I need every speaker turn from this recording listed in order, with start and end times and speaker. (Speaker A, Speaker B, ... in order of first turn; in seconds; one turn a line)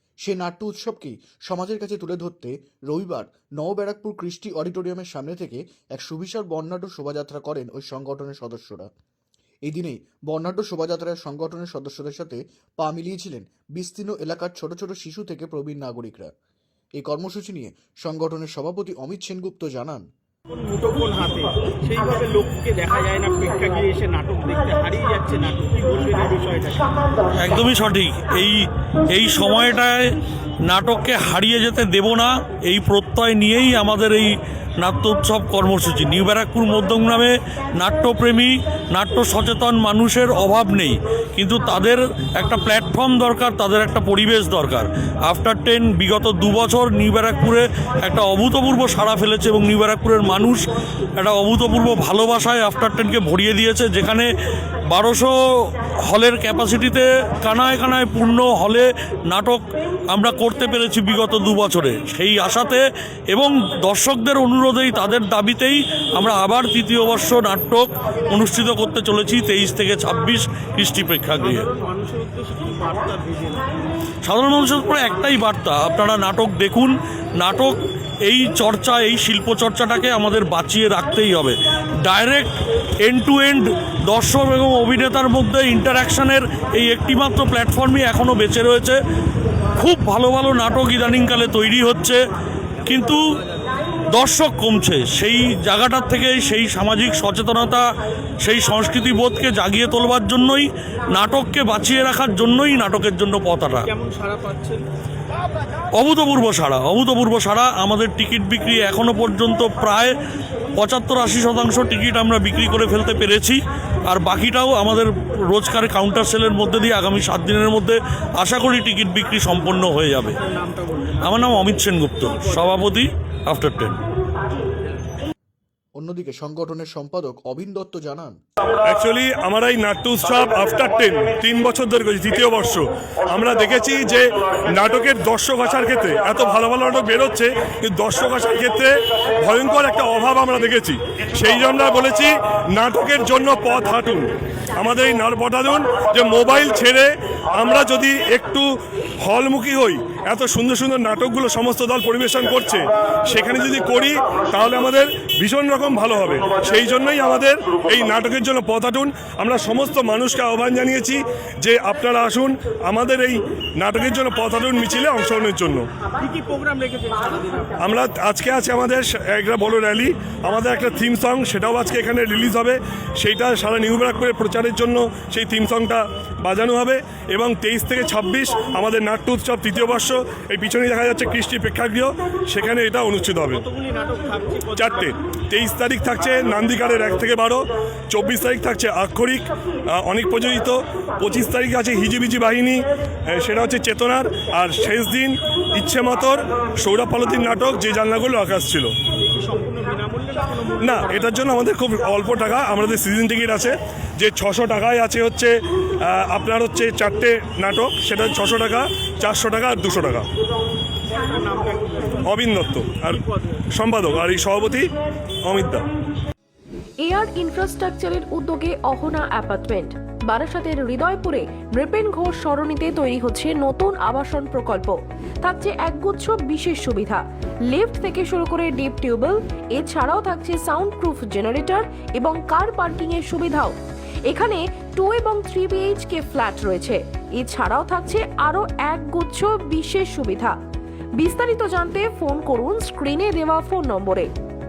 Speaker A: 0.2-8.9
Speaker A: 9.7-16.3
Speaker A: 17.0-20.0
Speaker B: 20.5-26.9
Speaker C: 27.3-50.6
Speaker C: 51.1-54.3
Speaker C: 54.9-71.7
Speaker B: 71.4-73.8
Speaker C: 74.2-77.7
Speaker C: 78.2-89.0
Speaker C: 89.8-92.2
Speaker C: 92.8-93.2
Speaker C: 94.1-97.8
Speaker C: 98.4-103.9
Speaker B: 103.9-104.8
Speaker C: 105.9-110.2
Speaker C: 110.8-120.4
Speaker B: 120.6-120.9
Speaker C: 121.2-124.0
Speaker A: 126.0-128.3
Speaker D: 128.8-165.8
Speaker B: 166.2-167.8
Speaker D: 167.8-183.7
Speaker B: 183.6-185.1
Speaker D: 184.8-198.9
Speaker B: 199.2-201.2
Speaker D: 200.8-210.3
Speaker B: 211.1-212.2
Speaker D: 212.2-214.9
Speaker B: 213.2-213.6
Speaker D: 215.4-215.9
Speaker E: 217.0-233.7
Speaker E: 234.3-240.5
Speaker E: 241.2-244.3